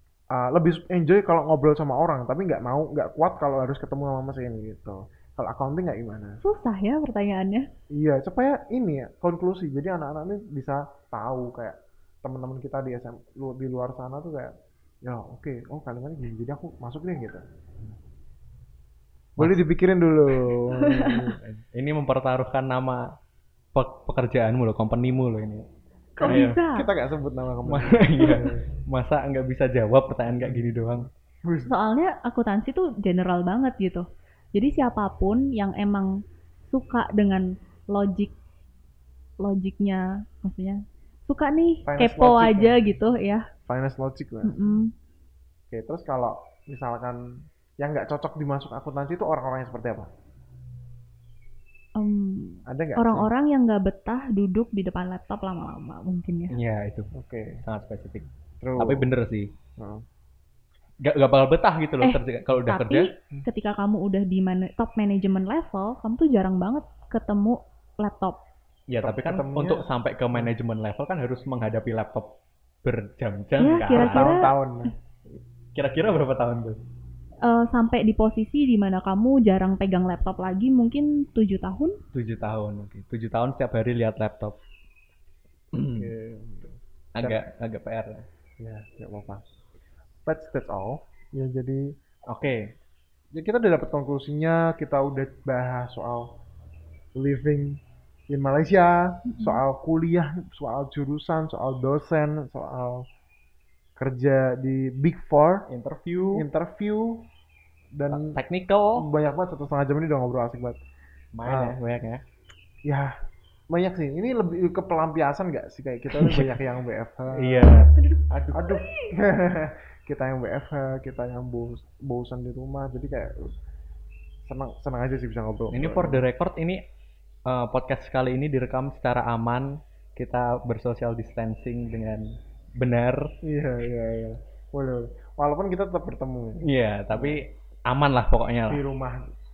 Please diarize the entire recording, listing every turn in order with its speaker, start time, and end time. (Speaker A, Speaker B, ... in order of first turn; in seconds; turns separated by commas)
Speaker A: 0.3-6.4, Speaker B: 6.4-7.7, Speaker A: 7.9-17.4, Speaker A: 19.4-21.4, Speaker C: 20.4-23.1, Speaker B: 20.8-21.2, Speaker C: 23.7-25.6, Speaker B: 26.2-26.9, Speaker A: 26.2-28.6, Speaker C: 26.2-26.6, Speaker C: 27.7-31.1, Speaker A: 30.3-31.7, Speaker B: 31.6-36.1, Speaker B: 36.7-38.4, Speaker B: 39.4-43.5, Speaker A: 41.9-42.8, Speaker A: 43.6-44.8, Speaker B: 44.4-44.9, Speaker A: 45.7-47.2, Speaker A: 47.8-50.1, Speaker B: 52.0-56.5, Speaker A: 52.7-53.3, Speaker C: 56.5-57.1, Speaker A: 57.1-57.6, Speaker C: 57.6-59.5, Speaker A: 58.6-59.1, Speaker A: 59.8-60.0, Speaker C: 61.0-63.1, Speaker B: 62.0-68.4, Speaker C: 68.9-72.3, Speaker A: 69.0-70.5, Speaker C: 72.8-74.4, Speaker B: 73.6-74.5, Speaker A: 73.8-74.9, Speaker C: 75.3-76.8, Speaker B: 77.4-82.0, Speaker C: 82.1-84.6, Speaker C: 85.7-86.1, Speaker A: 85.9-87.4, Speaker C: 87.1-88.2, Speaker A: 88.6-89.4, Speaker A: 90.2-92.0, Speaker C: 92.3-92.7, Speaker A: 93.3-96.3, Speaker A: 97.1-103.0, Speaker B: 99.2-99.6, Speaker A: 104.0-105.7, Speaker C: 105.7-106.5, Speaker A: 106.3-107.3, Speaker A: 107.9-108.4, Speaker C: 108.1-109.1, Speaker A: 108.9-110.8, Speaker C: 111.3-112.2, Speaker A: 111.4-111.8, Speaker A: 112.8-113.1, Speaker A: 113.7-117.9, Speaker C: 116.1-116.6, Speaker C: 117.3-118.8, Speaker A: 118.5-123.5, Speaker A: 124.4-126.2, Speaker C: 125.7-126.8, Speaker C: 127.5-133.3, Speaker A: 133.4-137.4, Speaker C: 136.6-138.8, Speaker A: 138.7-139.3